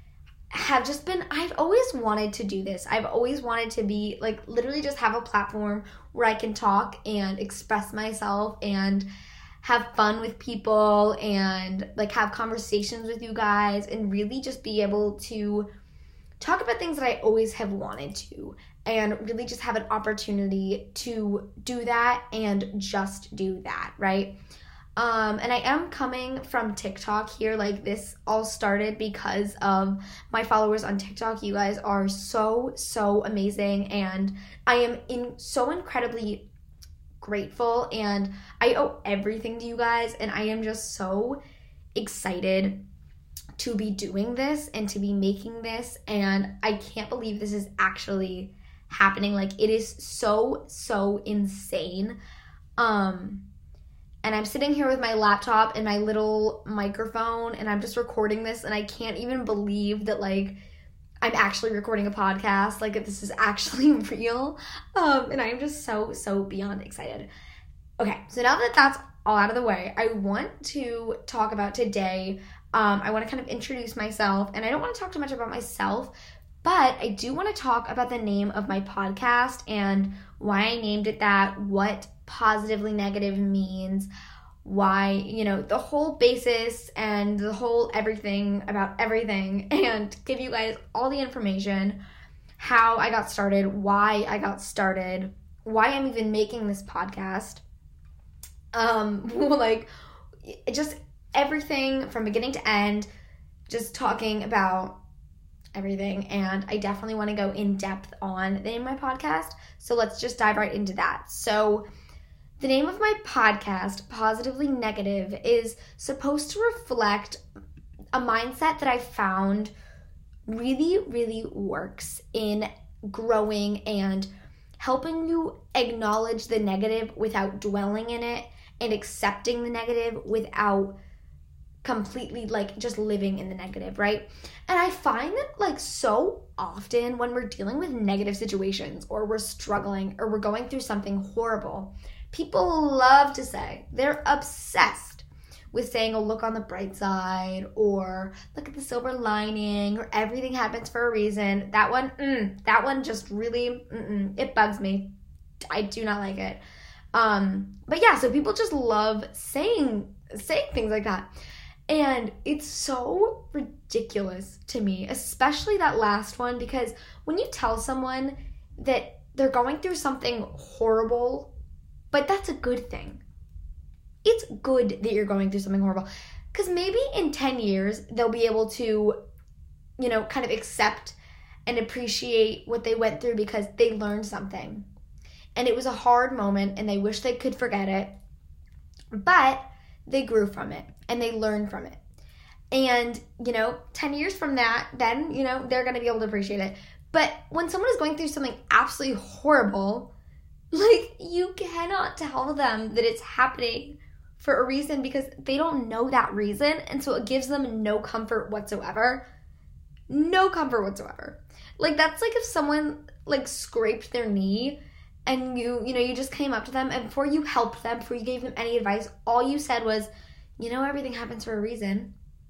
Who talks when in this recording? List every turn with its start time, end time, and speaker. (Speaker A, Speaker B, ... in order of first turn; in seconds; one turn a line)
Speaker A: 0.5-9.1
Speaker A: 9.6-15.7
Speaker A: 16.4-24.4
Speaker A: 25.0-36.5
Speaker A: 37.2-41.4
Speaker A: 42.0-42.8
Speaker A: 43.6-52.2
Speaker A: 52.8-53.4
Speaker A: 54.2-60.6
Speaker A: 61.2-67.3
Speaker A: 68.0-84.1
Speaker A: 84.6-92.0
Speaker A: 92.6-97.6
Speaker A: 98.7-99.9
Speaker A: 100.5-103.1
Speaker A: 103.7-105.0
Speaker A: 105.8-111.9
Speaker A: 112.6-117.4
Speaker A: 118.2-119.7
Speaker A: 120.5-131.0
Speaker A: 131.8-155.1
Speaker A: 155.7-156.6
Speaker A: 157.1-161.3
Speaker A: 161.9-171.5
Speaker A: 172.1-173.2
Speaker A: 174.2-179.2
Speaker A: 180.0-184.9
Speaker A: 185.6-188.2
Speaker A: 189.2-192.0
Speaker A: 192.7-200.1
Speaker A: 200.7-209.2
Speaker A: 210.1-222.1